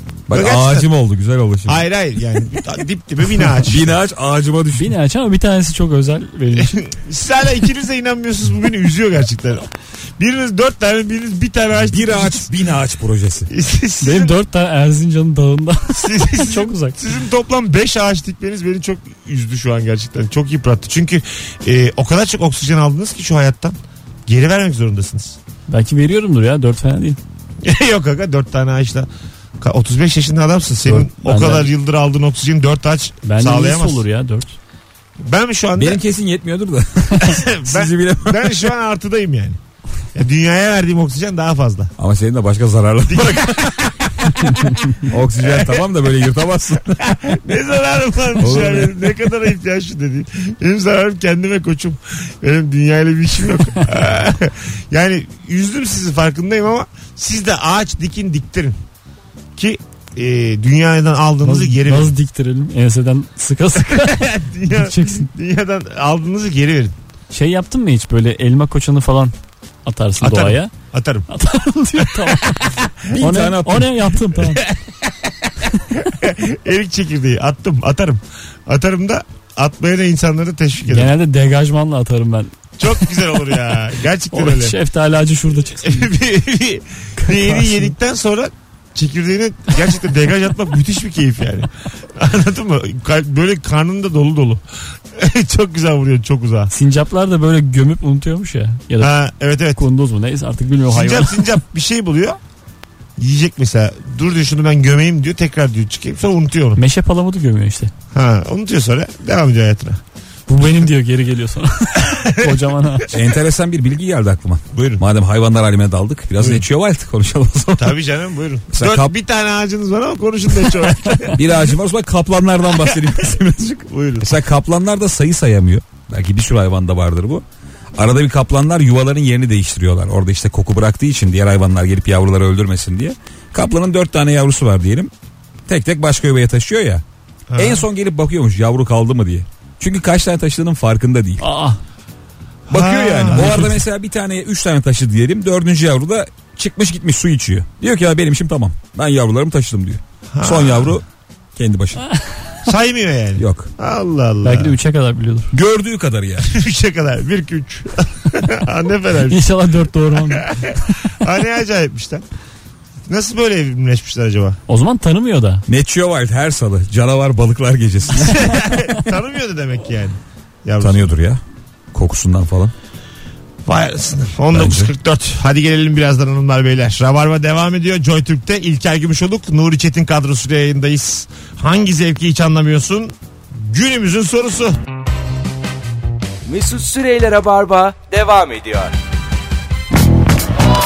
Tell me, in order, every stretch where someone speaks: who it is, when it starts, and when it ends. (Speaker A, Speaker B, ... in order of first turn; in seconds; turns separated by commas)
Speaker A: 0.3-1.8, Speaker B: 0.3-0.9, Speaker B: 1.7-3.9, Speaker A: 3.6-5.0, Speaker C: 4.7-6.8, Speaker B: 6.6-12.5, Speaker A: 11.9-13.5, Speaker B: 13.5-14.4, Speaker C: 14.0-17.0, Speaker B: 15.9-23.8, Speaker B: 24.3-25.4, Speaker C: 25.7-27.2, Speaker B: 27.6-29.1, Speaker B: 29.6-34.0, Speaker C: 30.9-31.7, Speaker C: 33.2-34.6, Speaker B: 35.2-36.0, Speaker A: 35.8-38.7, Speaker B: 37.2-39.6, Speaker B: 40.1-41.9, Speaker A: 42.0-43.9, Speaker B: 43.1-45.9, Speaker C: 44.5-44.8, Speaker A: 45.0-47.2, Speaker B: 47.0-58.8, Speaker A: 48.4-49.1, Speaker B: 59.6-62.1, Speaker C: 61.4-65.3, Speaker B: 63.8-67.0, Speaker C: 67.3-69.3, Speaker C: 69.9-70.7, Speaker B: 70.2-71.3, Speaker C: 71.3-74.7, Speaker B: 72.0-73.2, Speaker A: 73.1-73.9, Speaker B: 74.5-81.1, Speaker C: 80.8-83.0, Speaker B: 82.8-84.8, Speaker C: 84.3-86.1, Speaker B: 85.8-94.6, Speaker C: 87.2-87.9, Speaker B: 95.1-96.7, Speaker C: 96.7-99.1, Speaker B: 99.0-99.8, Speaker C: 99.8-101.5, Speaker B: 100.9-102.4, Speaker B: 103.2-106.8, Speaker C: 106.8-107.9, Speaker B: 108.1-110.0, Speaker C: 110.5-113.1, Speaker B: 112.0-112.5, Speaker A: 113.1-118.0, Speaker B: 114.7-115.0, Speaker B: 117.8-121.6, Speaker A: 118.7-119.1, Speaker A: 121.3-127.5, Speaker B: 123.9-124.3, Speaker A: 128.0-135.1, Speaker A: 135.7-137.0, Speaker B: 137.5-137.9, Speaker A: 137.6-141.4, Speaker C: 141.4-141.8, Speaker A: 142.7-152.1, Speaker B: 142.7-143.7, Speaker B: 150.3-150.9, Speaker B: 152.7-154.8, Speaker A: 153.4-153.7, Speaker C: 154.4-155.5, Speaker A: 155.5-156.5, Speaker B: 156.4-159.4, Speaker C: 159.3-161.0, Speaker B: 160.3-162.2, Speaker B: 163.1-164.6, Speaker C: 164.7-165.7, Speaker A: 165.7-168.6, Speaker B: 168.3-171.1, Speaker A: 170.8-171.4, Speaker A: 171.9-172.7, Speaker B: 173.7-184.8, Speaker A: 174.5-174.9, Speaker D: 186.5-188.9